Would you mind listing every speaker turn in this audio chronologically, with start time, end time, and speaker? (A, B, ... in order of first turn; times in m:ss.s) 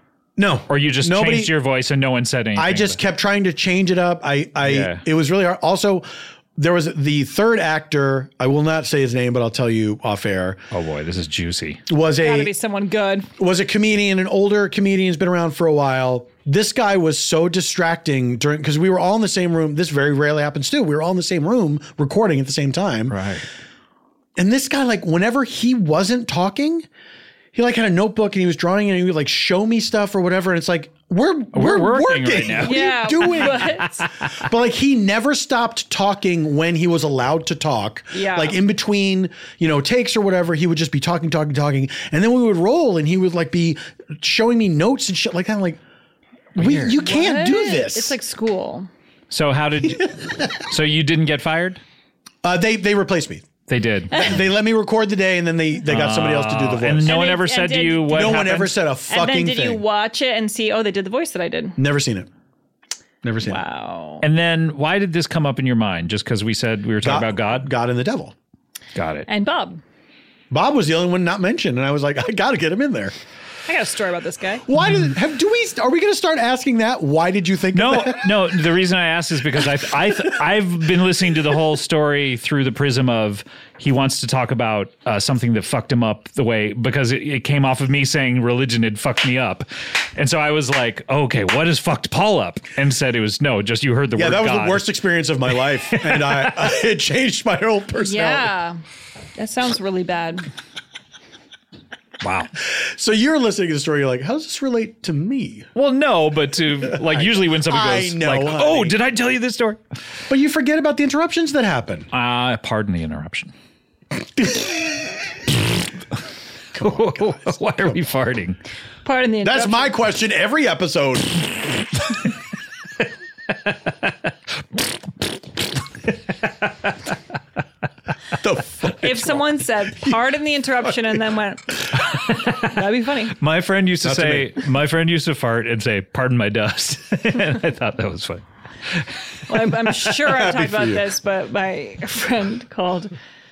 0:00.4-0:01.5 A
0:00.7-0:03.0 B
0:02.6-0:10.6 A
0:04.6-0:05.0 B
0:10.7-0:11.8 B
0:11.9-0:12.5 A
0:12.2-0:13.3 C
0:13.4-0:23.2 A
0:23.1-0:23.4 B
0:24.4-0:26.9 A
0:27.5-0:33.7 A
0:31.5-0:34.3 B
0:32.6-0:34.1 C
0:34.4-0:45.8 A
0:38.1-0:38.6 C
0:46.6-0:48.2 A
0:46.6-0:47.0 B
0:46.9-0:48.9 C
0:49.3-0:51.8 B
0:50.0-0:50.7 A
0:52.4-0:53.5 A
0:53.7-0:54.2 B
0:54.1-0:57.3 A
0:55.8-0:58.8 B
0:57.1-0:58.5 C
0:58.1-0:59.8 A
0:59.1-1:01.8 C
1:01.8-1:02.3 A
1:03.2-1:03.6 A
1:03.4-1:04.2 C
1:04.2-1:07.7 B
1:07.0-1:08.4 A
1:09.0-1:09.3 B
1:09.3-1:09.8 C
1:10.5-1:13.1 A
1:13.7-1:14.6 C
1:14.7-1:18.5 A
1:14.8-1:15.1 B
1:17.7-1:35.0 B
1:34.2-1:38.5 A
1:35.8-1:36.7 B
1:38.0-1:38.8 C
1:39.4-1:40.5 C
1:42.2-1:42.5 B
1:42.6-1:45.7 A
1:45.8-1:49.8 B
1:46.8-1:49.0 A
1:50.3-1:52.1 A
1:52.1-1:53.5 B
1:54.4-1:55.0 A
1:56.7-1:57.9 A
1:56.8-1:58.6 B
1:59.0-2:00.0 C
1:59.4-2:01.5 A
2:08.4-2:09.5 A
2:09.0-2:11.9 C
2:12.0-2:12.7 B
2:12.5-2:13.4 C
2:13.3-2:19.1 B
2:14.0-2:14.7 A
2:19.5-2:23.1 C
2:20.2-2:21.1 A